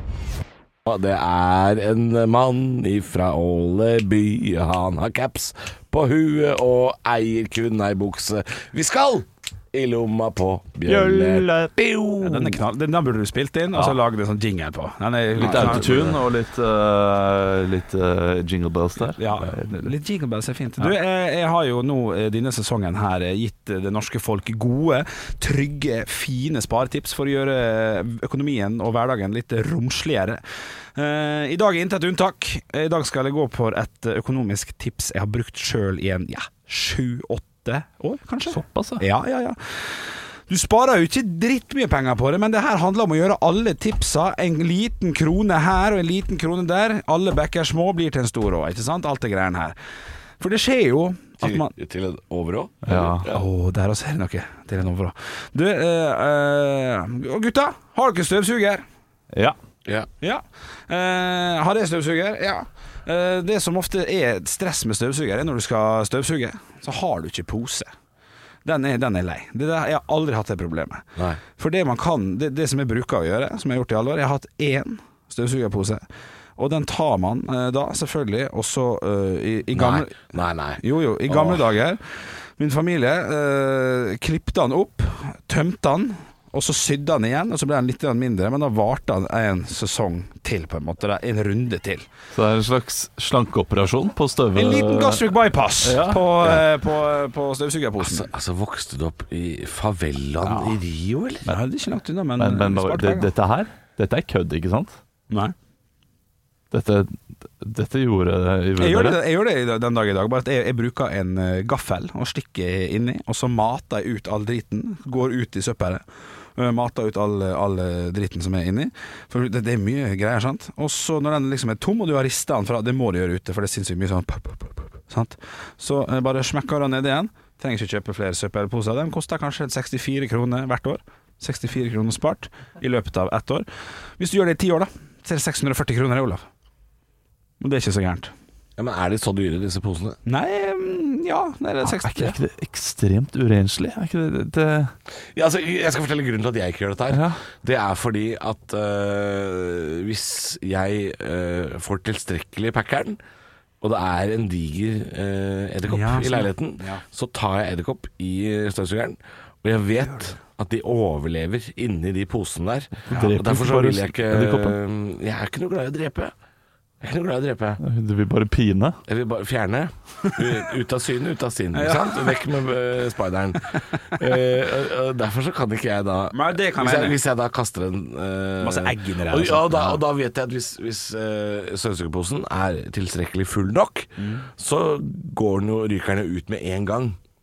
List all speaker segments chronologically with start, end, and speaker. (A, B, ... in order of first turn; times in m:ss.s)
0:00.8-0:12.6 A
0:10.9-0:11.7 B
0:12.2-0:16.1 C
0:13.7-0:14.0 B
0:15.4-0:19.9 B
0:15.4-0:16.1 A
0:19.2-0:30.4 C
0:31.0-0:49.8 C
0:38.5-0:39.0 B
0:50.4-0:51.7 C
0:51.4-0:53.4 A
0:52.8-0:53.3 B
0:53.3-0:58.8 C
0:59.3-0:59.6 B
1:00.2-1:07.9 C
1:08.6-1:11.0 C
1:11.6-1:16.0 C
1:16.6-1:32.1 C
1:19.7-1:21.6 A
1:32.3-1:35.3 B
1:34.5-1:38.3 C
1:35.8-1:36.6 B
1:38.0-1:41.5 A
1:40.4-1:40.8 C
1:41.4-1:43.3 C
1:42.4-1:45.0 B
1:46.7-1:49.2 B
1:48.8-1:56.0 C
1:56.6-2:13.7 C
2:14.2-2:16.4 C
2:17.6-2:18.3 C
2:18.8-2:20.2 A
2:20.3-2:22.4 C
2:21.8-2:24.9 B
2:25.4-2:33.2 A
2:27.1-2:27.4 B
2:33.8-2:46.3 A
2:35.9-2:37.0 C
2:43.1-2:44.8 B
2:47.0-2:47.8 A
2:47.8-2:49.0 B
2:49.1-3:07.2 A
2:51.7-2:52.4 C
2:56.3-2:57.2 C
2:58.6-3:00.0 C
3:04.2-3:04.5 C